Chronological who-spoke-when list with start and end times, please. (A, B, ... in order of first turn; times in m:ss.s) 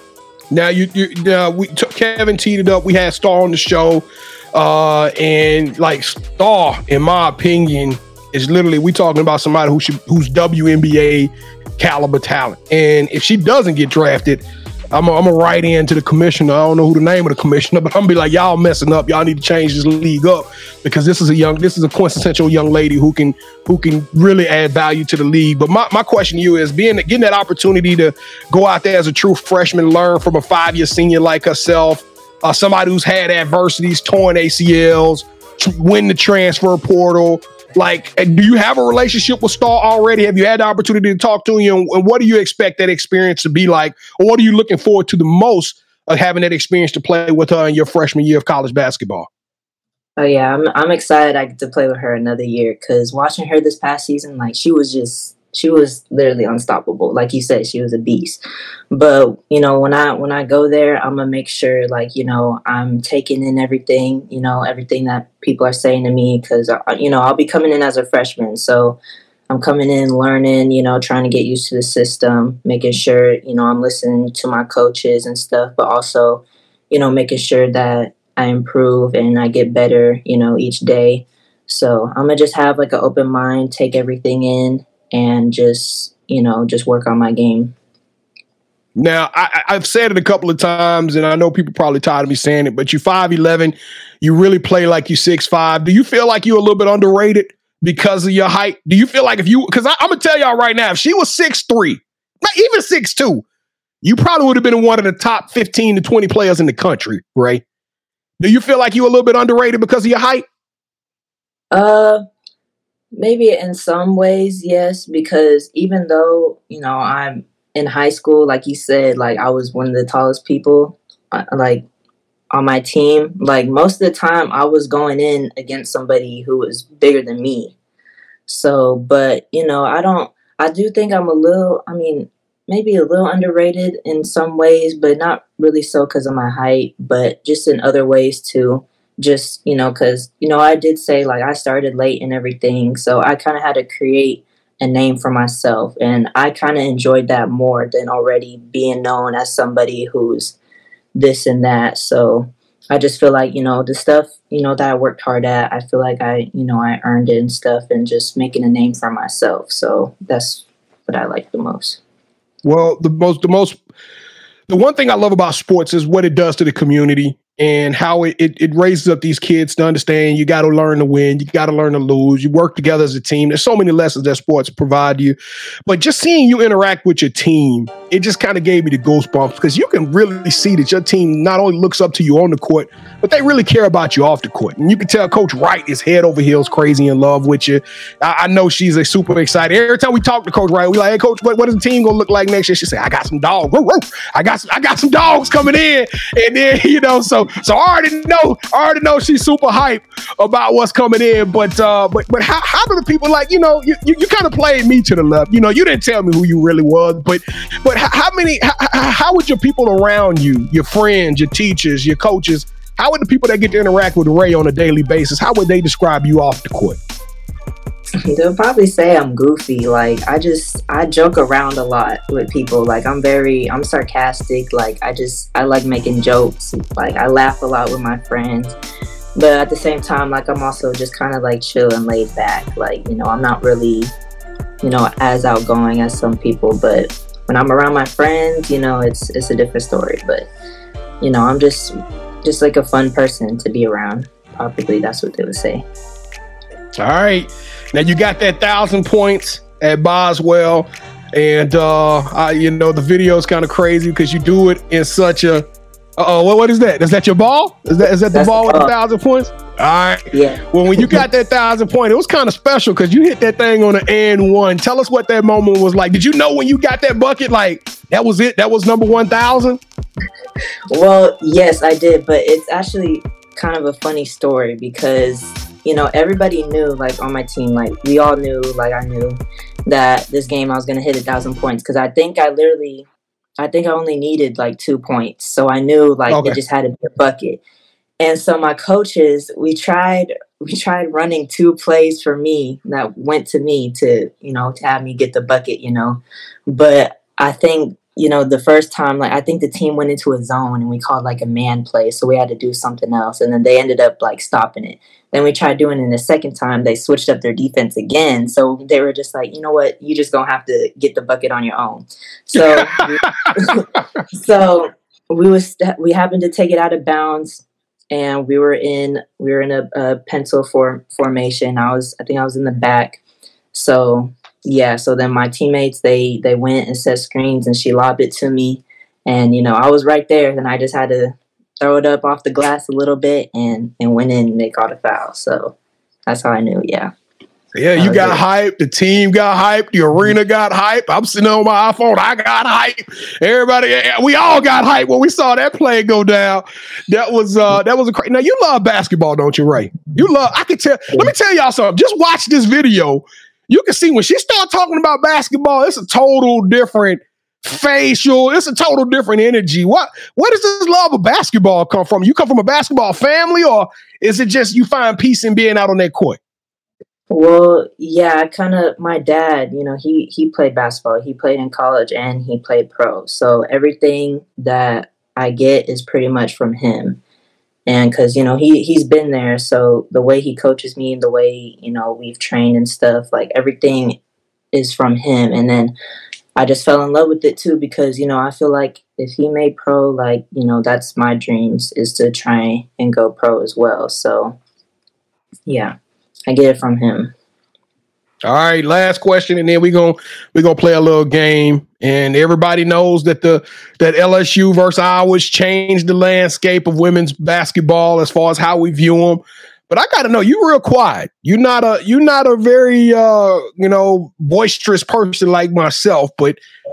0:00.5-0:49.3 A
0:50.2-0:58.4 B
0:58.9-1:09.0 B
1:09.5-1:27.7 B
1:29.0-1:43.4 A
1:44.0-1:47.6 A
1:48.4-1:50.4 A
1:51.7-1:52.2 B
1:53.1-2:01.8 B
2:02.5-2:07.7 B
2:08.5-2:30.6 B
2:31.1-2:42.0 B
2:42.6-2:43.8 A
2:44.7-3:37.0 A
3:38.2-3:48.8 B
3:49.4-3:54.1 B
3:54.8-4:00.5 B
4:01.2-4:05.8 B
4:07.0-4:15.6 A
4:16.2-4:29.8 A
4:18.3-4:18.9 B
4:20.3-4:21.2 B
4:30.9-4:43.1 B
4:43.6-4:47.6 B
4:46.3-4:46.6 A
4:48.2-5:23.2 B
5:12.6-5:13.6 A
5:23.7-5:35.7 B
5:36.3-5:37.1 B
5:37.7-6:06.4 A
5:38.0-5:38.4 B
6:07.3-6:17.2 B
6:17.9-6:24.2 B
6:24.7-6:25.9 B
6:26.6-6:34.6 B
6:35.6-6:35.9 B
6:36.5-6:37.3 B
6:38.4-6:56.6 A